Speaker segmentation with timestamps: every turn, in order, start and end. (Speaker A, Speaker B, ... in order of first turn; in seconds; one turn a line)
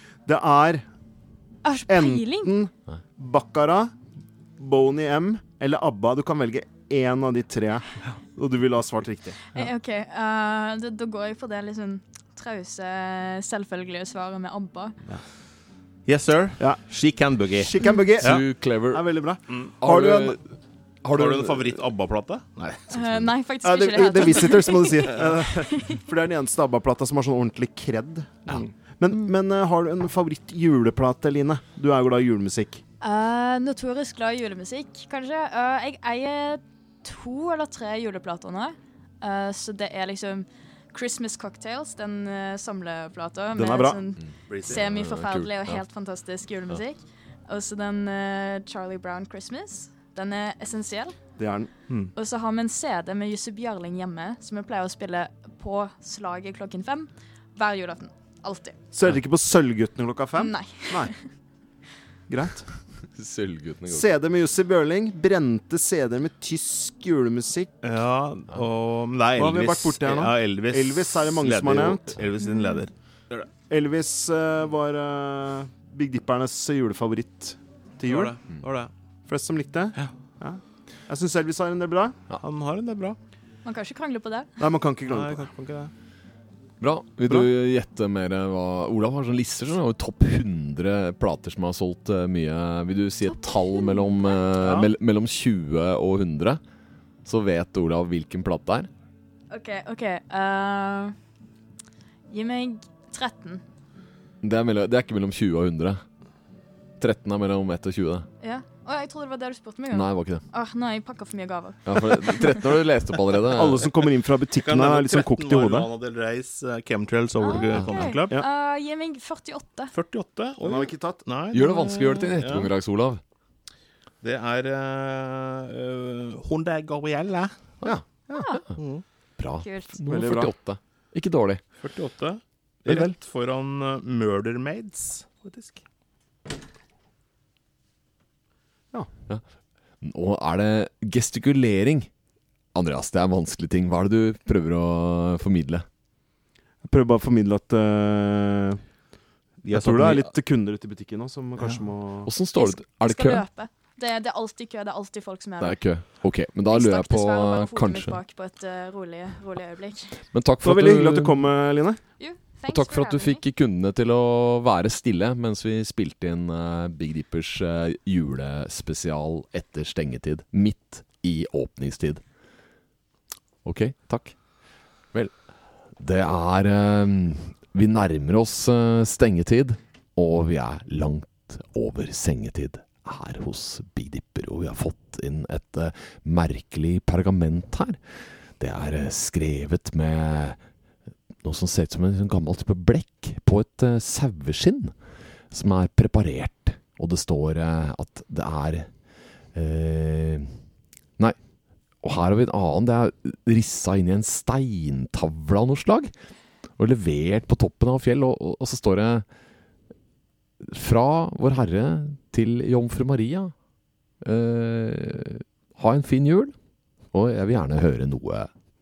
Speaker A: 0.3-0.9
Speaker B: 1.6-2.5
Speaker A: 1.9-3.9
Speaker A: 4.6-9.4
Speaker B: 9.5-15.0
Speaker C: 16.1-18.4
Speaker A: 17.6-20.4
Speaker D: 18.2-19.1
Speaker D: 19.8-20.4
Speaker D: 21.0-21.8
Speaker C: 21.1-23.1
Speaker B: 22.9-26.0
Speaker A: 23.6-32.8
Speaker B: 33.0-51.1
Speaker A: 43.5-44.0
Speaker C: 44.5-44.8
Speaker D: 44.7-45.8
Speaker A: 51.4-51.7
Speaker B: 52.1-58.8
Speaker A: 58.9-61.1
Speaker B: 60.4-61.2
Speaker A: 62.3-62.7
Speaker D: 63.1-64.1
Speaker A: 63.9-67.7
Speaker C: 67.8-73.5
Speaker A: 69.4-72.2
Speaker B: 72.4-72.8
Speaker A: 73.7-78.4
Speaker C: 78.1-78.9
Speaker A: 79.3-82.2
Speaker C: 82.4-83.2
Speaker B: 83.7-84.5
Speaker A: 84.6-85.5
Speaker C: 85.1-85.9
Speaker D: 86.8-96.6
Speaker B: 93.6-94.3
Speaker C: 94.6-94.9
Speaker D: 97.2-98.9
Speaker B: 99.5-101.2
Speaker B: 102.3-103.6
Speaker D: 104.4-106.0
Speaker D: 107.0-108.3
Speaker B: 108.4-112.6
Speaker D: 109.9-110.4
Speaker D: 111.8-113.9
Speaker A: 113.5-115.9
Speaker C: 114.5-118.4
Speaker B: 117.4-119.9
Speaker D: 117.7-118.1
Speaker C: 119.9-122.7
Speaker A: 120.6-121.2
Speaker D: 121.5-123.2
Speaker C: 124.2-127.5
Speaker D: 127.8-128.6
Speaker A: 127.8-128.5
Speaker B: 128.4-128.6
Speaker C: 128.8-129.0
Speaker D: 129.4-131.6
Speaker B: 129.6-130.0
Speaker A: 130.1-130.5
Speaker C: 131.8-135.8
Speaker A: 132.8-133.1
Speaker D: 140.0-142.1
Speaker D: 142.7-145.8
Speaker A: 146.8-148.8
Speaker C: 149.6-150.3
Speaker A: 149.7-152.3
Speaker D: 152.2-153.4
Speaker B: 152.6-155.8
Speaker D: 155.6-158.2
Speaker B: 156.7-160.2
Speaker D: 160.3-161.5
Speaker A: 160.6-162.0
Speaker B: 162.2-163.4
Speaker D: 162.7-172.2
Speaker D: 173.7-174.4
Speaker D: 175.1-175.4
Speaker D: 176.0-188.0
Speaker D: 188.6-190.6
Speaker D: 191.4-194.9
Speaker D: 195.5-198.9
Speaker D: 199.5-200.6
Speaker D: 202.0-206.1
Speaker D: 206.8-209.3
Speaker D: 210.6-213.5
Speaker D: 214.2-216.5
Speaker D: 217.1-218.5